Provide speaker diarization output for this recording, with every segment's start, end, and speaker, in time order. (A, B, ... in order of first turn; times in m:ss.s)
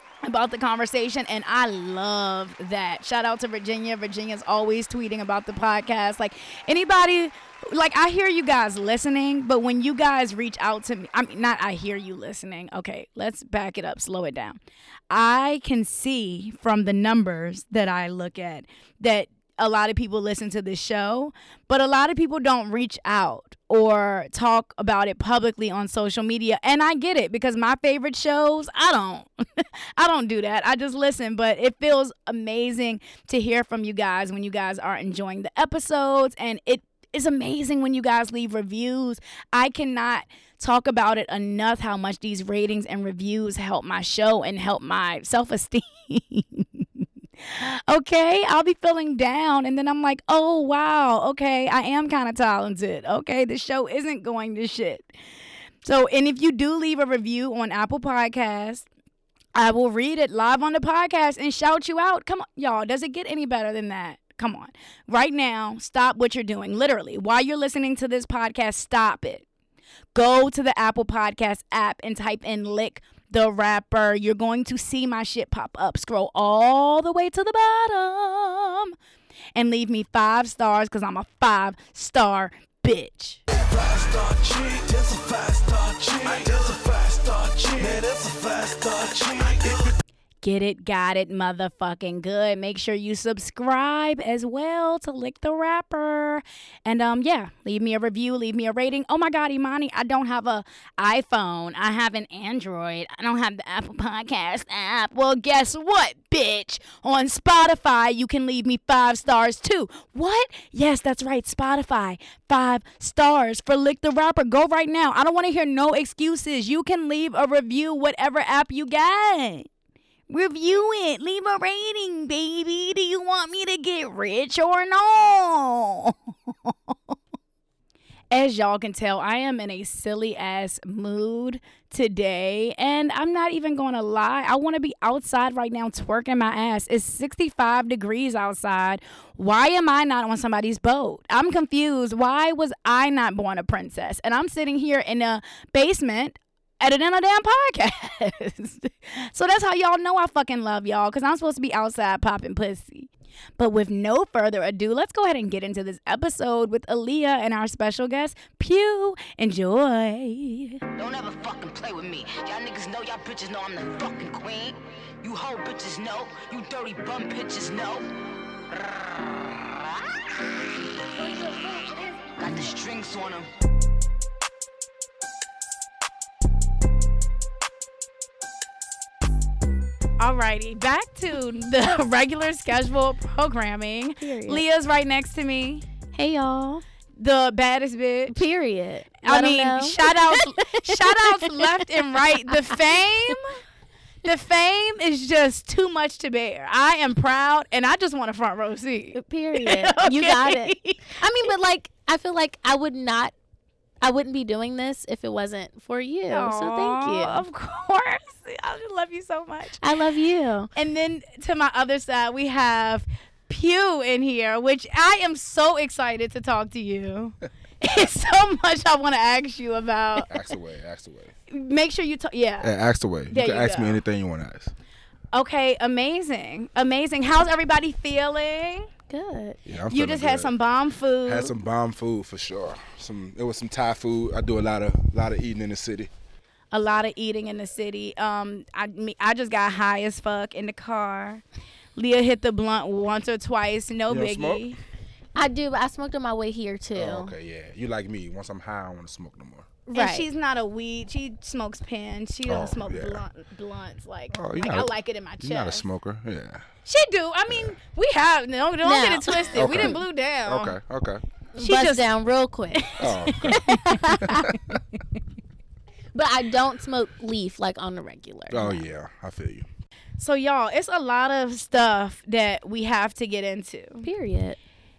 0:00.2-0:14.6 A
0:15.1-0:55.1 A
0:55.8-0:58.9 A
0:59.6-1:09.4 A
1:10.1-1:18.9 A
1:19.6-1:23.4 A
1:23.6-1:29.9 B
1:30.4-1:59.7 A
2:00.3-2:07.1 A
2:08.3-2:40.8 A
2:41.0-2:48.1 C
2:52.4-2:53.5 C
3:00.2-3:05.9 A
3:04.2-3:04.6 D
3:06.1-3:06.8 D
3:07.2-3:08.4 A
3:08.3-3:11.7 D
3:09.2-3:13.6 A
3:14.2-3:21.2 A
3:19.2-3:23.3 D
3:24.0-3:27.4 D
3:26.3-3:29.8 A
3:29.8-3:30.7 D
3:30.8-3:40.3 A
3:40.3-3:41.3 E
3:41.5-3:42.7 A
3:42.6-3:44.7 E
3:43.3-3:44.0 A
3:45.3-3:48.9 A
3:49.1-3:49.6 D
3:49.7-3:50.5 E
3:49.9-3:51.5 A
3:51.2-3:56.1 E
3:56.7-4:01.4 A
4:02.0-4:04.8 A
4:04.1-4:04.6 E
4:05.4-4:07.3 D
4:07.0-4:09.7 E
4:09.9-4:15.8 A
4:09.9-4:10.3 D
4:12.5-4:13.2 E
4:14.3-4:16.6 E
4:16.9-4:20.8 A
4:18.8-4:20.0 D
4:19.6-4:21.2 E
4:21.6-4:22.9 D
4:21.6-4:22.0 A
4:22.8-4:25.0 A
4:23.0-4:23.6 E
4:23.4-4:24.2 D
4:24.2-4:24.8 E
4:26.1-4:28.8 D
4:28.5-4:29.7 E
4:30.2-4:34.1 A
4:34.0-4:34.6 D